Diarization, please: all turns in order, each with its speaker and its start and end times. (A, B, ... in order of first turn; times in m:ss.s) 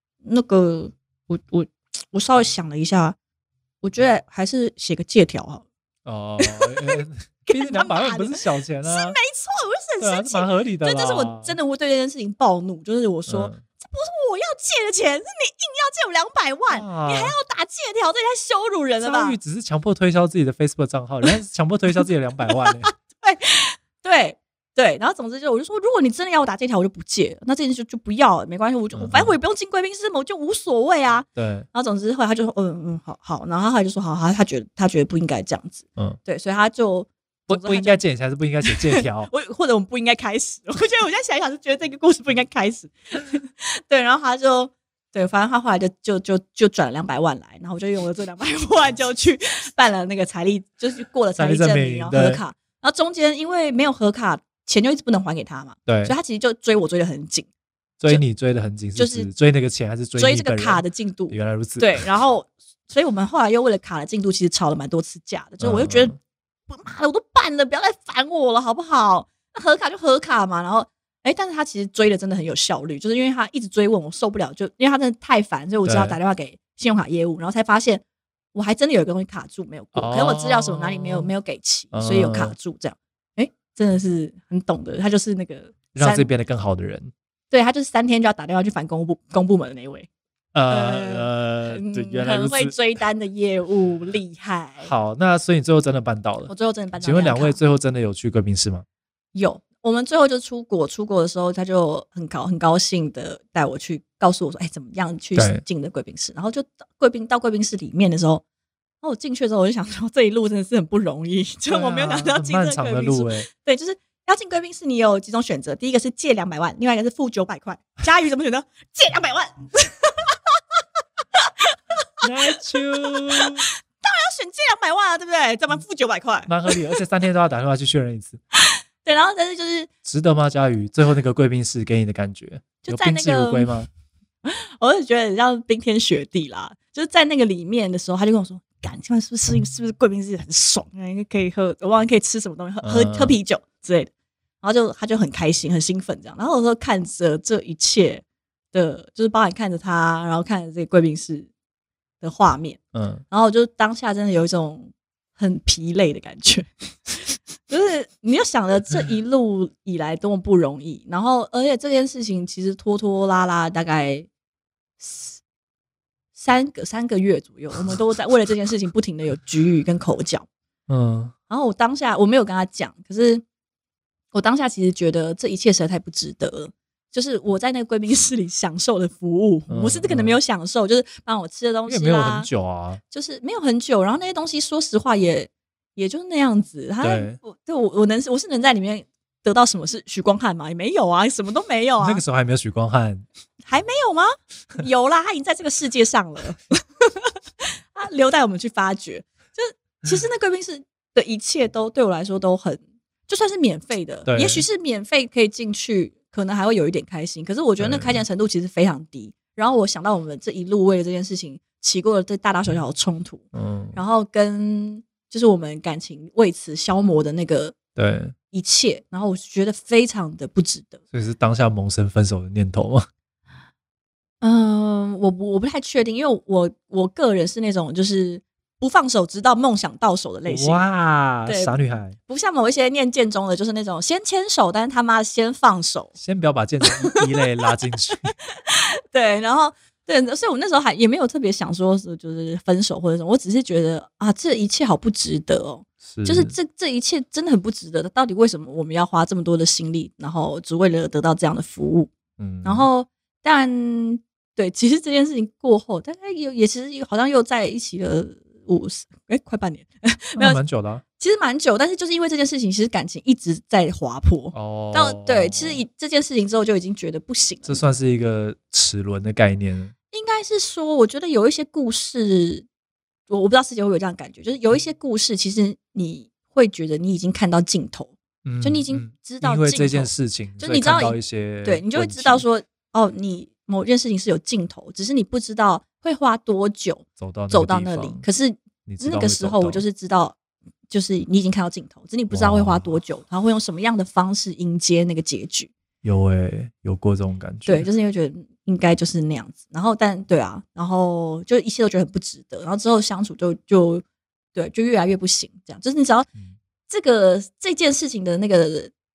0:00.2-0:03.2 A
0:03.8-0:05.6 A
0:06.0-0:09.2 B
0:06.4-0:19.4 A
0:10.0-0:11.6 B
0:13.3-0:13.6 B
0:16.7-0:17.4 B
0:19.0-0:22.9 B
0:22.6-0:38.0 A
0:28.9-0:29.3 B
0:31.4-0:31.6 B
0:37.5-0:39.3 B
0:38.7-0:57.5 A
0:51.4-0:52.4 B
0:55.9-0:56.1 B
0:58.0-1:02.1 B
0:59.0-0:59.3 A
1:00.2-1:06.2 A
1:05.6-1:06.2 B
1:06.7-1:18.0 A
1:15.8-1:16.2 B
1:18.5-1:26.3 A
1:19.9-1:21.3 B
1:21.9-1:22.5 B
1:25.9-1:27.1 B
1:27.5-1:30.1 A
1:30.5-1:32.7 B
1:30.7-1:34.9 A
1:34.8-1:38.8 B
1:36.5-1:37.6 A
1:39.3-1:48.4 A
1:45.3-1:45.6 B
1:49.0-2:00.4 A
1:51.7-1:53.5 B
2:01.3-2:01.8 A
2:02.2-2:03.7 B
2:03.1-2:03.4 A
2:04.0-2:06.8 A
2:06.5-2:08.4 B
2:08.5-2:09.9 A
2:10.0-2:13.9 B
2:12.8-2:13.7 A
2:14.4-2:24.1 A
2:22.8-2:23.4 B
2:24.6-2:31.5 A
2:32.2-2:32.8 A
2:32.9-2:33.2 B
2:33.3-2:44.3 A
2:45.0-2:45.4 A
2:46.4-2:50.4 A
2:50.9-2:51.3 B
2:51.5-2:53.4 A
2:54.3-3:02.5 A
2:59.7-3:00.4 B
3:01.9-3:03.0 B
3:03.1-3:12.2 A
3:07.0-3:07.4 B
3:12.0-3:13.2 B
3:13.6-3:37.8 A
3:24.2-3:24.6 B
3:27.8-3:28.2 B
3:33.5-3:34.0 B
3:37.9-3:38.3 B
3:38.5-3:41.0 A
3:41.1-3:43.1 B
3:44.4-3:50.8 A
3:50.5-3:52.2 B
3:51.4-3:56.1 A
3:56.2-3:58.3 B
3:58.5-4:12.1 A
4:06.0-4:06.6 B
4:12.4-4:12.9 B
4:12.6-4:20.6 A
4:20.4-4:21.0 B
4:21.2-4:27.8 A
4:24.5-4:25.8 B
4:27.6-4:29.9 B
4:30.1-4:32.6 A
4:33.3-4:50.4 A
4:38.4-4:42.4 B
4:47.2-4:48.2 B
4:48.8-4:49.8 B
4:50.9-4:55.7 A
4:52.3-4:53.0 B
4:56.0-4:57.9 B
4:57.6-5:04.0 A
5:04.5-5:06.3 A
5:06.9-5:08.9 A